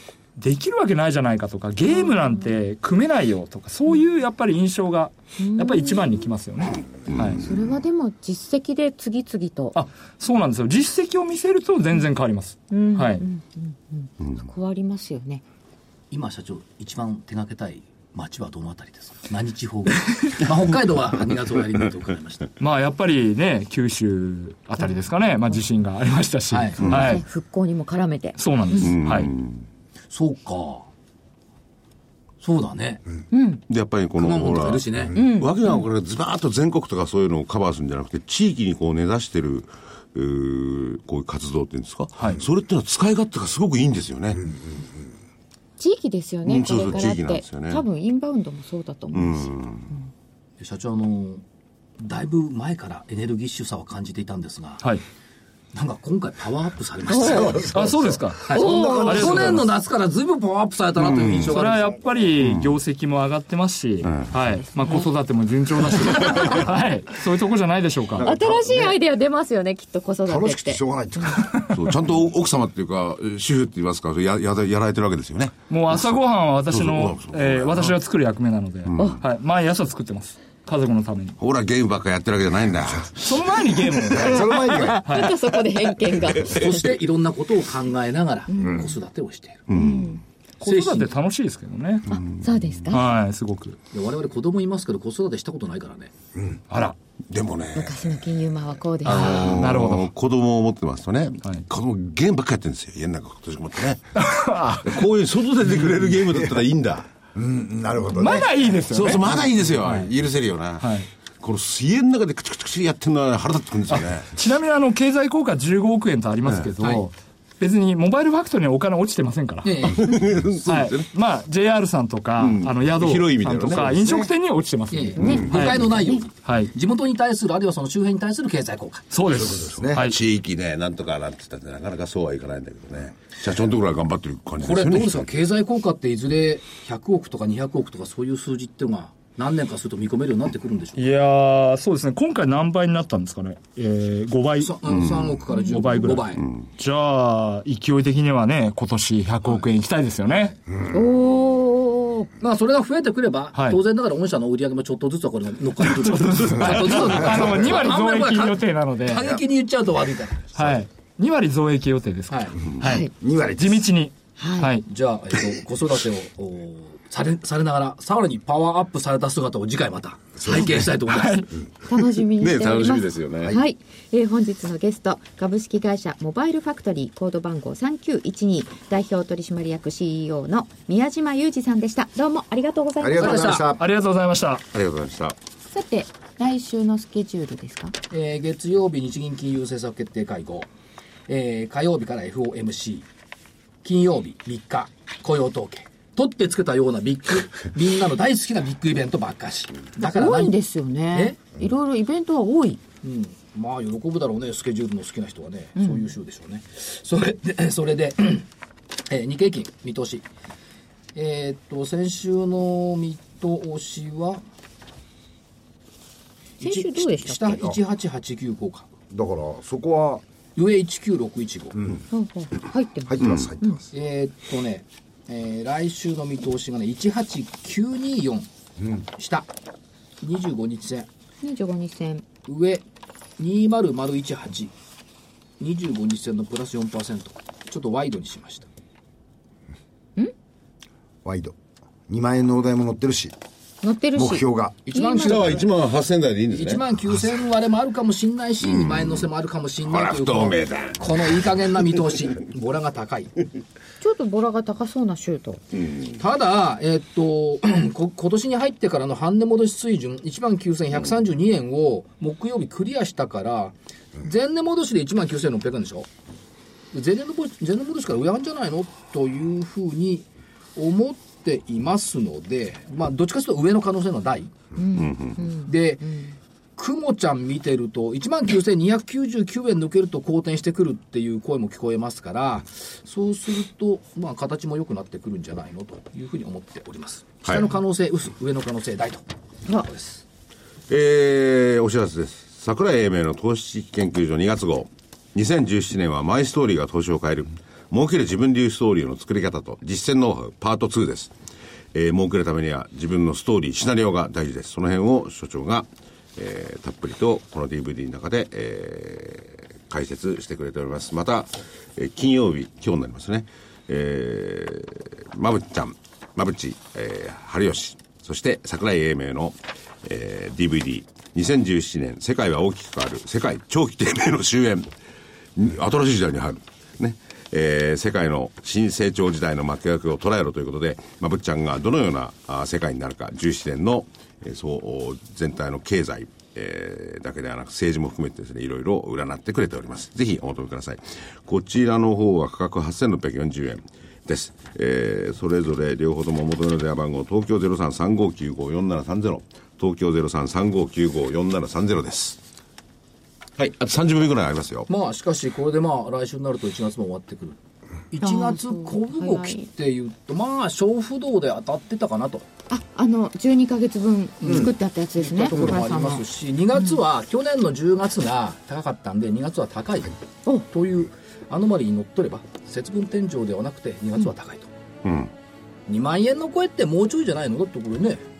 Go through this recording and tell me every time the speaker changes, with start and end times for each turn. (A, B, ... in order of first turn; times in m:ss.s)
0:00.4-0:07.4 A
0:01.9-0:02.3 B
0:05.4-0:06.3 B
0:07.1-0:07.4 C
0:07.3-0:09.8 B
0:09.7-0:13.2 A
0:12.7-0:15.4 B
0:16.1-0:22.5 D
0:22.6-0:27.2 A
0:26.5-0:27.0 D
0:26.8-0:28.9 B
0:28.4-0:29.3 A
0:28.7-0:29.6 C
0:30.1-0:30.9 D
0:32.4-0:33.1 D
0:33.3-0:33.6 B
0:33.7-0:44.4 C
0:34.2-0:35.2 D
0:35.1-0:35.8 B
0:44.3-0:44.8 E
0:45.8-0:50.0 B
0:46.4-0:47.8 C
0:49.1-0:49.9 C
0:50.6-0:51.4 D
0:52.0-0:54.8 D
0:55.7-0:57.7 D
0:57.1-0:59.6 E
0:57.2-0:57.6 B
0:57.7-0:59.6 A
0:58.4-1:01.9 D
0:58.5-0:59.4 B
1:01.0-1:01.5 C
1:01.5-1:08.3 A
1:04.0-1:04.3 C
1:08.2-1:11.4 B
1:08.2-1:09.0 E
1:10.2-1:11.6 E
1:11.4-1:11.7 A
1:11.7-1:16.2 C
1:15.7-1:21.4 A
1:16.7-1:18.0 C
1:18.9-1:19.2 C
1:21.4-1:23.2 C
1:23.2-1:25.4 A
1:24.1-1:25.1 E
1:24.4-1:26.9 B
1:26.4-1:29.7 D
1:28.5-1:29.0 B
1:29.7-1:30.2 C
1:29.7-1:30.2 B
1:30.6-1:32.1 A
1:30.6-1:31.1 D
1:32.1-1:33.0 B
1:32.9-1:33.8 A
1:33.9-1:36.1 D
1:36.7-1:37.0 A
1:37.3-1:38.2 C
1:37.7-1:39.7 B
1:39.0-1:40.1 A
1:39.0-1:44.2 C
1:44.1-1:45.0 A
1:44.8-1:47.1 C
1:47.3-1:48.6 E
1:48.1-1:50.1 A
1:48.9-1:50.9 C
1:50.8-1:51.1 A
1:51.4-1:54.3 C
1:53.9-1:59.9 A
1:59.6-2:00.4 D
2:00.0-2:01.1 C
2:00.6-2:06.7 A
2:02.4-2:04.0 C
2:03.9-2:04.3 E
2:04.9-2:09.1 D
2:05.2-2:06.2 B
2:05.2-2:05.7 C
2:09.1-2:10.2 A
2:09.3-2:10.1 E
2:09.5-2:15.3 C
2:14.6-2:21.1 D
2:20.9-2:25.0 A
2:24.6-2:26.5 D
2:24.9-2:25.4 C
2:25.5-2:25.9 B
2:25.7-2:30.6 A
2:30.9-2:32.3 B
2:32.4-2:40.6 D
2:33.5-2:33.8 A
2:35.8-2:39.4 A
2:40.5-2:44.8 A
2:42.3-2:42.7 D
2:42.8-2:43.1 B
2:43.0-2:43.9 E
2:44.4-2:44.8 B
2:44.8-2:51.5 D
2:50.4-2:50.8 E
2:50.5-2:51.5 A
2:51.8-3:03.6 B
2:52.4-2:53.6 C
3:03.0-3:03.8 E
3:03.2-3:03.6 D
3:03.6-3:04.6 A
3:04.7-3:05.4 C
3:05.7-3:07.9 B
3:08.1-3:10.7 D
3:11.3-3:13.0 D
3:13.8-3:20.6 D
3:20.0-3:22.8 B
3:21.1-3:21.4 D
3:23.0-3:28.5 D
3:25.8-3:26.1 B
3:29.0-3:30.2 D
3:31.1-3:34.4 D
3:36.6-3:38.9 D
3:36.6-3:37.6 B
3:39.1-3:40.2 E
3:40.6-3:41.8 D
3:41.7-3:42.0 E
3:42.1-3:43.8 B
3:43.1-3:43.8 E
3:43.9-3:48.5 D
3:49.1-3:49.5 D
3:50.2-3:51.1 D
3:51.4-3:52.3 B
3:52.4-3:52.8 D
3:53.4-3:54.7 D
3:55.6-3:58.7 D
4:01.2-4:01.6 E
4:02.1-4:03.3 E
4:03.8-4:05.6 B
4:04.2-4:04.8 E
4:04.9-4:05.7 D
4:05.2-4:06.8 C
4:06.5-4:13.4 D
4:08.6-4:09.3 C
4:09.8-4:11.5 C
4:14.0-4:15.6 B
4:16.2-4:26.1 D
4:26.9-4:34.7 D
4:34.8-4:36.2 B
4:34.9-4:35.4 C
4:35.6-4:36.2 D
4:36.8-4:50.2 D
4:50.9-5:01.3 C
5:01.9-5:24.9 C
5:25.6-5:52.4 C
5:53.6-5:54.9 C
5:54.9-5:57.6 D
5:58.1-6:02.5 D
5:58.2-5:59.7 B
6:02.7-6:07.0 B
6:04.4-6:10.1 D
6:10.7-6:14.7 D
6:15.0-6:15.3 C
6:15.9-6:18.2 D